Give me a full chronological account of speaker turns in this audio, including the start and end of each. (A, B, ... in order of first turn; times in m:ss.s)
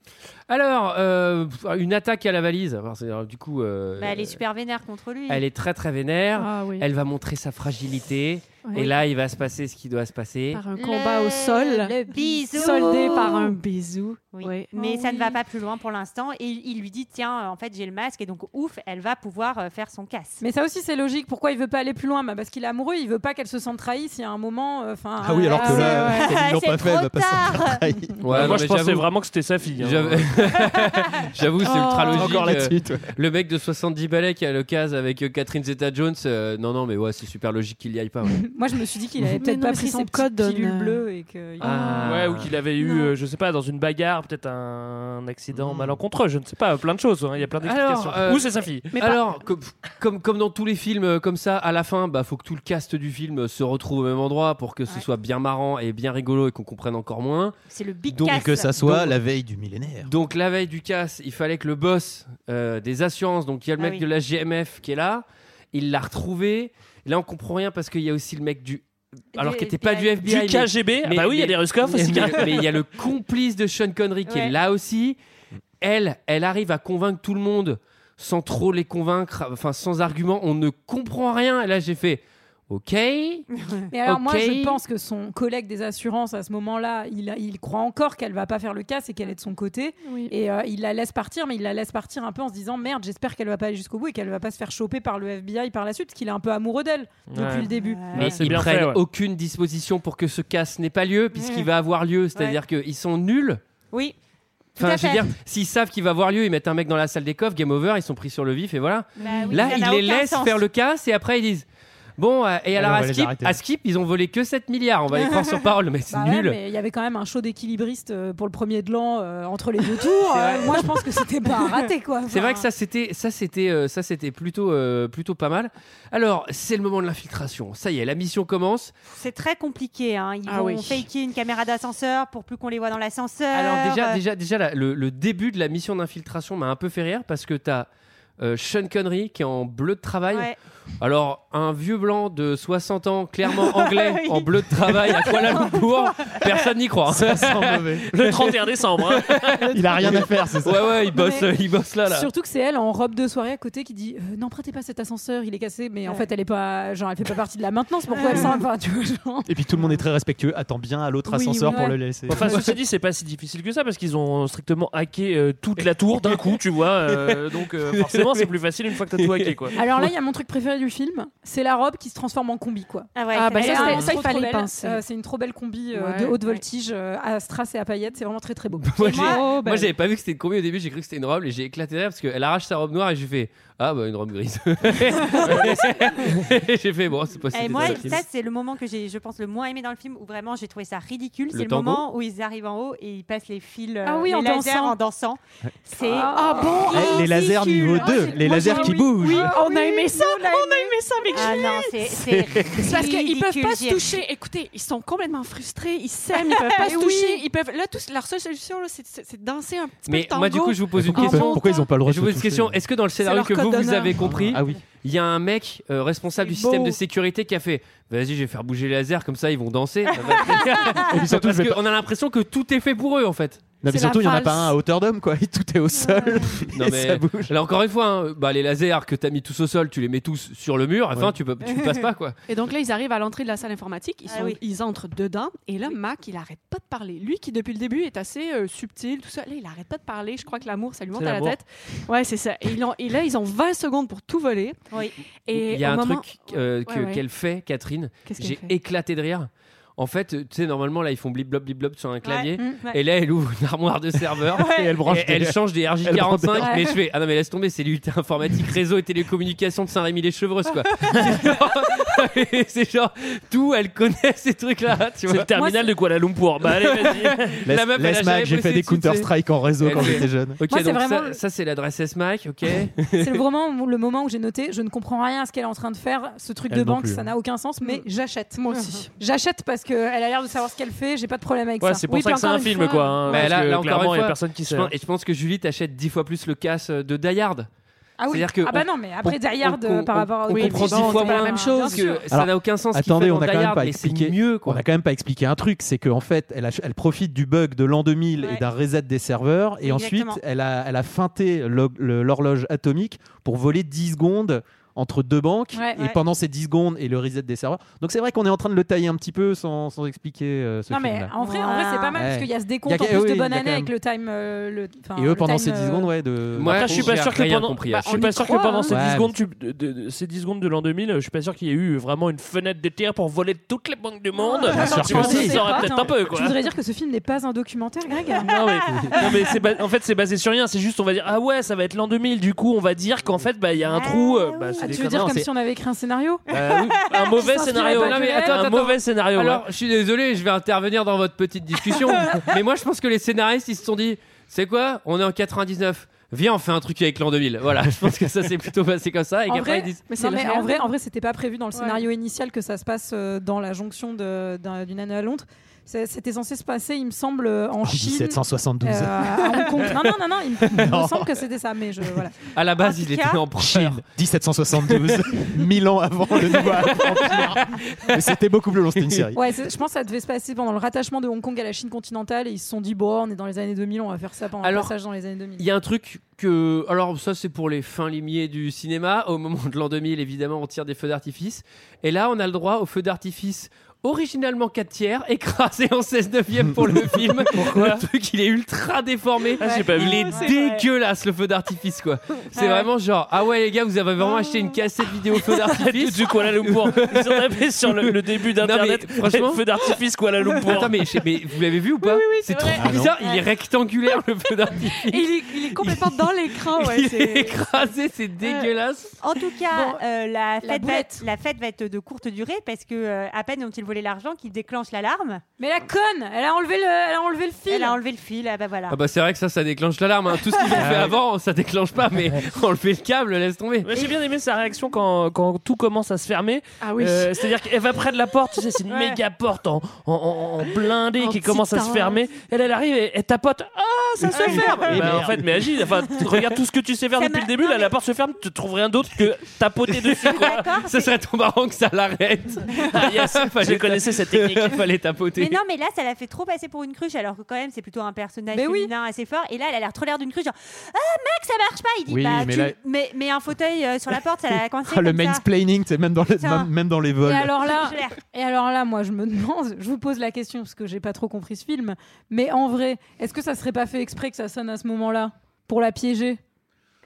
0:00.5-0:04.4 A
0:04.0-0:05.4 B
0:05.3-0:10.6 A
0:06.4-0:06.9 C
0:08.6-0:08.9 C
0:10.5-0:15.4 C
0:10.8-0:13.5 B
0:11.8-0:13.5 D
0:14.3-0:20.4 B
0:20.4-0:26.2 D
0:25.2-0:28.6 E
0:25.5-0:27.8 B
0:25.7-0:26.4 C
0:28.2-0:29.1 A
0:28.3-0:30.3 F
0:29.8-0:38.4 A
0:31.6-0:32.6 C
0:32.0-0:33.1 E
0:38.3-0:42.1 D
0:39.4-0:41.0 C
0:41.6-0:42.5 A
0:41.6-0:42.0 C
0:42.0-0:48.9 F
0:42.8-0:43.2 C
0:45.5-0:46.0 E
0:47.6-0:57.6 A
0:48.9-0:49.2 C
0:57.7-0:58.7 B
0:58.1-0:59.2 A
0:58.2-1:00.1 E
1:00.0-1:15.2 A
1:03.8-1:04.0 B
1:09.4-1:10.1 B
1:10.2-1:12.8 F
1:14.3-1:14.6 B
1:15.8-1:23.5 A
1:23.6-1:23.9 B
1:23.9-1:38.1 D
1:24.1-1:24.7 A
1:30.0-1:30.3 C
1:37.3-1:39.0 F
1:37.5-1:38.4 B
1:38.1-1:43.6 A
1:41.4-1:41.7 B
1:43.9-1:44.2 B
1:44.8-1:45.3 B
1:44.8-1:51.6 A
1:49.2-1:50.6 B
1:52.2-1:56.6 A
1:52.8-1:53.6 E
1:56.1-2:02.7 D
2:00.3-2:00.9 A
2:02.3-2:08.9 A
2:09.1-2:14.2 B
2:10.5-2:11.1 C
2:13.5-2:17.9 A
2:18.4-2:32.3 A
2:20.3-2:20.6 B
2:27.1-2:28.1 E
2:28.1-2:29.6 F
2:29.7-2:30.2 C
2:29.7-2:30.9 E
2:31.0-2:31.5 D
2:32.1-2:39.6 D
2:38.1-2:38.5 B
2:39.5-2:42.8 E
2:41.3-2:42.0 C
2:41.7-2:41.9 D
2:42.3-2:49.8 F
2:46.3-2:46.6 A
2:47.1-2:48.5 A
2:49.2-2:50.1 A
2:49.8-2:59.9 D
2:53.1-2:54.2 B
2:53.3-2:55.0 C
2:55.9-2:56.6 C
2:58.9-3:08.2 A
2:59.0-2:59.5 B
3:07.5-3:18.6 B
3:11.5-3:12.0 A
3:14.1-3:15.0 D
3:16.0-3:21.4 D
3:16.2-3:22.1 C
3:16.9-3:19.6 E
3:21.3-3:24.2 B
3:22.1-3:22.9 E
3:22.7-3:31.9 C
3:26.5-3:27.3 B
3:26.8-3:27.3 D
3:30.1-3:43.6 A
3:30.9-3:32.8 E
3:33.2-3:34.4 C
3:34.2-3:34.8 E
3:36.4-3:37.0 C
3:40.9-3:41.8 E
3:43.8-3:47.5 E
3:43.9-3:44.8 C
3:46.0-3:46.5 C
3:46.7-3:52.4 A
3:52.5-4:04.8 C
3:54.3-3:54.6 B
4:01.2-4:01.6 F
4:04.9-4:05.2 B
4:05.5-4:07.2 C
4:05.5-4:25.5 A
4:08.2-4:08.8 C
4:12.2-4:13.0 B
4:12.6-4:12.9 D
4:14.6-4:15.0 B
4:14.6-4:16.7 E
4:16.6-4:17.0 D
4:25.3-4:27.6 F
4:25.6-4:25.9 D
4:26.8-4:33.4 A
4:27.7-4:30.6 E
4:30.6-4:31.4 D
4:33.1-4:43.4 D
4:36.7-4:37.3 E
4:37.8-4:39.1 C
4:41.8-4:44.9 F
4:42.1-4:43.3 C
4:43.3-4:47.7 A
4:48.2-4:52.2 D
4:48.3-4:54.8 A
4:50.5-4:52.2 C
4:52.3-5:11.3 E
4:58.4-4:58.6 B
4:59.8-5:00.4 B
5:05.7-5:06.0 D
5:10.9-5:16.2 D
5:11.4-5:12.2 B
5:11.4-5:11.7 C
5:12.2-5:13.9 E
5:15.2-5:17.1 E
5:16.5-5:18.2 A
5:16.6-5:26.6 F
5:17.9-5:19.1 C
5:18.9-5:19.3 E
5:24.4-5:28.6 D
5:24.7-5:25.6 E
5:28.4-5:35.5 F
5:33.9-5:34.9 B
5:34.8-5:36.5 D
5:35.0-5:35.5 E
5:36.5-5:39.6 F
5:37.1-5:39.0 D
5:37.8-5:50.0 A
5:49.5-6:02.4 D
5:50.0-5:50.9 C
5:51.7-5:52.0 C
5:57.8-6:00.0 E
6:00.7-6:01.3 E
6:02.5-6:04.0 A
6:02.8-6:03.4 B
6:03.6-6:09.4 E
6:04.9-6:05.4 A
6:06.5-6:08.3 A
6:09.3-6:15.7 D
6:14.6-6:15.0 A
6:15.6-6:39.9 A
6:27.5-6:28.0 F
6:29.6-6:30.3 F
6:29.7-6:30.8 B
6:32.6-6:32.9 D
6:35.6-6:40.9 F
6:40.6-6:49.2 A
6:42.0-6:43.1 C
6:42.8-6:43.1 E
6:44.7-6:48.7 C
6:49.2-6:55.4 B
6:49.7-6:50.0 D
6:50.6-6:51.3 D
6:55.6-6:58.0 D
6:57.7-6:59.0 B
6:58.9-7:03.9 A
7:00.8-7:01.1 F
7:03.8-7:20.7 F
7:06.8-7:07.5 C
7:08.9-7:09.2 B
7:11.2-7:12.2 C
7:14.3-7:15.7 E
7:14.4-7:14.7 B
7:14.4-7:15.0 C
7:17.2-7:17.9 B
7:20.2-7:21.1 B
7:20.2-7:25.6 A
7:22.8-7:24.8 F
7:25.4-7:35.4 B
7:28.5-7:28.9 D
7:32.1-7:32.8 E
7:34.8-7:37.7 E
7:36.4-7:36.7 B
7:37.2-7:46.4 D
7:37.6-7:38.2 B